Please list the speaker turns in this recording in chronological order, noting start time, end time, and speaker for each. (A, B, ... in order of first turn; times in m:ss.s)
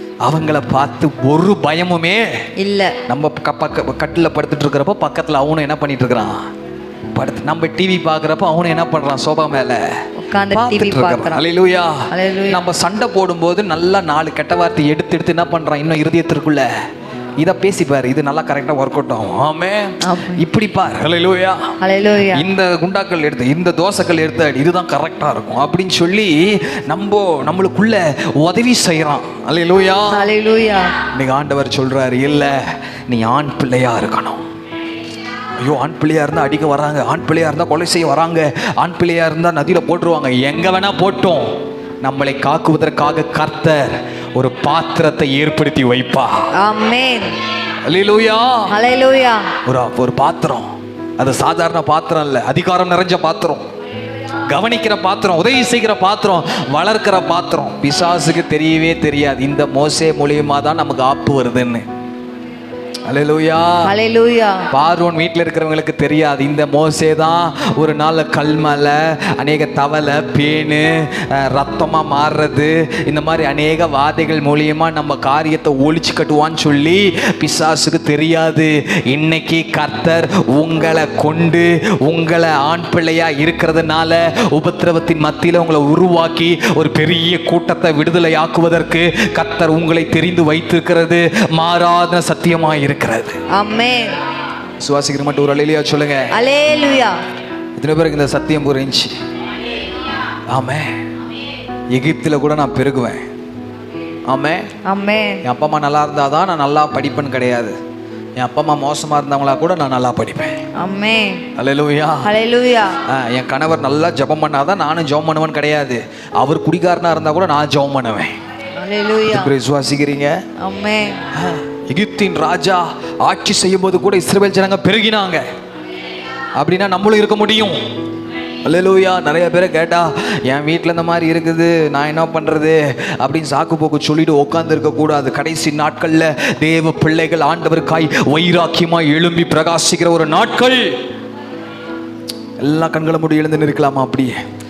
0:00.2-0:02.3 A
0:02.6-0:03.0 B
0:03.1-0:06.4 A
0:07.2-0:09.8 A
0:10.2-0:11.4 B
0:10.5-0:16.7 A
0:12.1-0:12.6 B
0:17.4-0:21.7 A
0:20.0-0:20.4 B
0:21.8-0:22.4 B
0:22.3-0:30.3 A
0:30.1-0:30.9 B
0:31.1-0:32.6 A
0:33.1-0:34.4 A
0:35.6-0:41.5 A
0:42.0-0:46.5 A
0:46.6-0:47.3 B
0:47.9-0:48.7 A
0:48.7-0:49.5 B
0:49.6-0:53.6 A
0:54.5-1:01.8 A
1:03.1-1:03.9 A
1:03.8-1:04.7 B
1:04.7-1:33.4 A
1:33.5-1:34.2 B
1:34.8-1:36.3 A
1:36.3-1:37.2 B
1:37.8-1:39.2 A
1:40.5-1:41.0 A
1:41.9-1:43.2 A
1:44.3-1:44.7 A
1:44.8-1:45.4 B
1:45.4-1:47.8 A
1:48.4-1:50.6 A
1:50.8-1:51.5 B
1:51.6-1:52.3 A
1:52.2-1:53.0 B
1:53.1-1:58.3 A
1:58.8-1:59.5 B
1:59.3-2:00.4 A
2:00.6-2:01.2 B
2:01.4-2:05.4 A
2:06.6-2:07.8 A
2:08.6-2:21.0 A
2:22.6-2:24.3 A